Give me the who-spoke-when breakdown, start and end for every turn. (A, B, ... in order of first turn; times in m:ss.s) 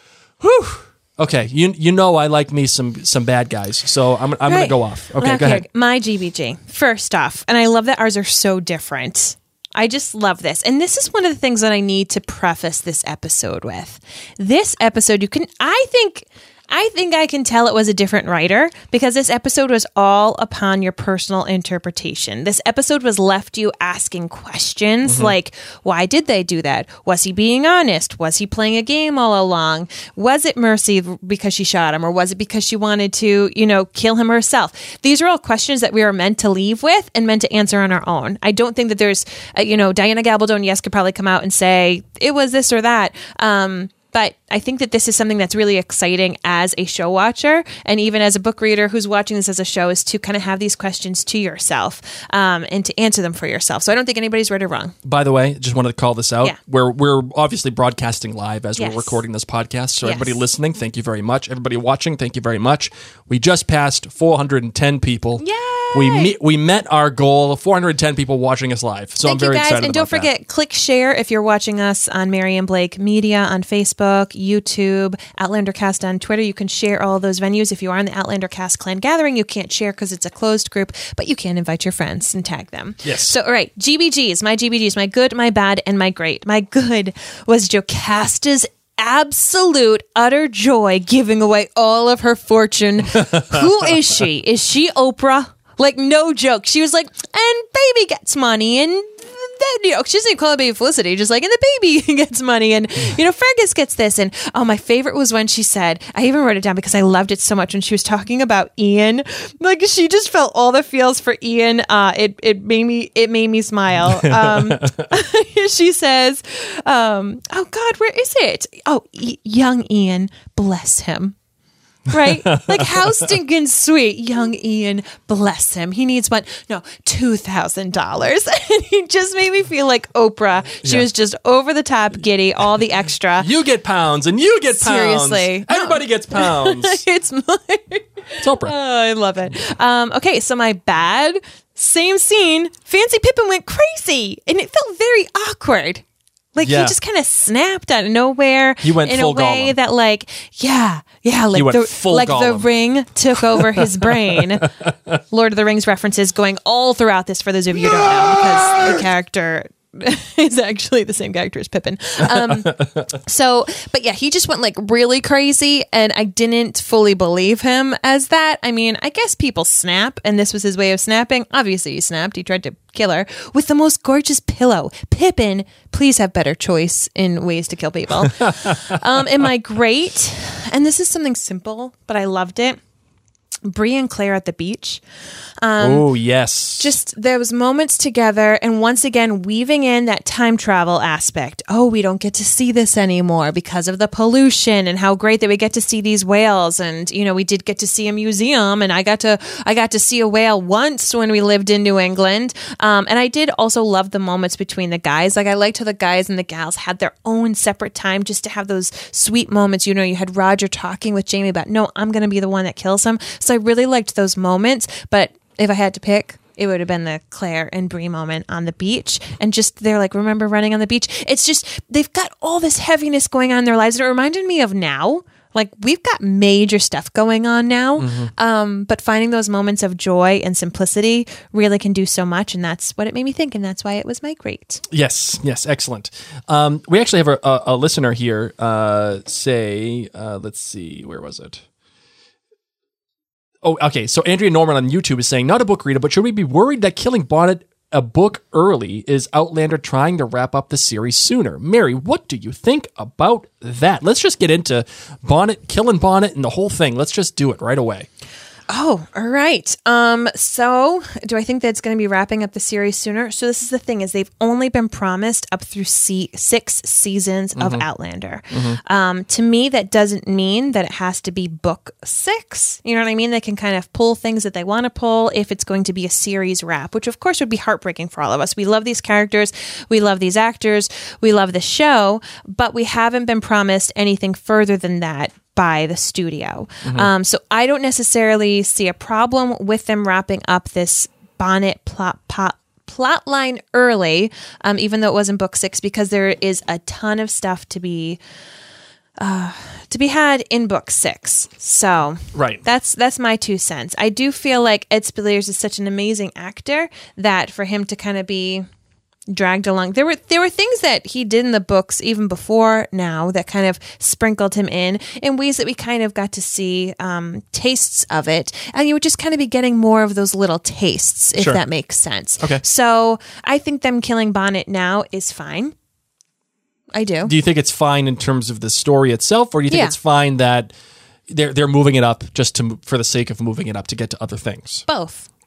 0:00.4-0:05.6 A
0:04.5-0:55.0 B
0:25.1-0:25.3 A
0:55.0-1:10.3 A
0:58.8-0:59.2 B
1:00.0-1:00.4 B
1:05.4-1:06.4 B
1:09.2-2:01.4 B
1:23.0-1:23.4 A
1:33.1-1:33.8 A
1:54.0-1:55.1 A
2:02.1-2:13.5 B
2:02.2-2:03.2 A
2:13.4-2:17.0 A
2:14.7-2:26.0 B
2:18.4-2:18.7 A
2:26.6-2:34.7 B
2:26.6-2:27.0 A
2:28.8-2:29.8 A
2:31.5-2:32.7 A
2:33.4-2:35.2 A
2:35.3-3:02.8 B
2:42.2-2:43.1 A
2:58.3-2:58.9 A
3:03.6-3:05.0 B
3:05.6-3:06.1 B
3:05.8-3:07.0 A
3:06.8-3:54.8 B
3:48.0-3:48.3 A
3:54.9-4:01.6 A
4:03.6-4:18.1 A
4:18.7-4:58.2 B
4:27.6-4:27.9 A
4:28.5-4:28.8 A
4:46.8-4:47.1 A
4:59.2-5:08.7 B
5:02.3-5:02.6 A
5:09.3-5:25.7 B
5:21.4-5:21.6 A
5:26.9-5:27.3 B
5:27.2-5:30.7 A
5:29.7-5:30.0 B
5:31.3-5:34.9 A
5:34.9-5:35.3 B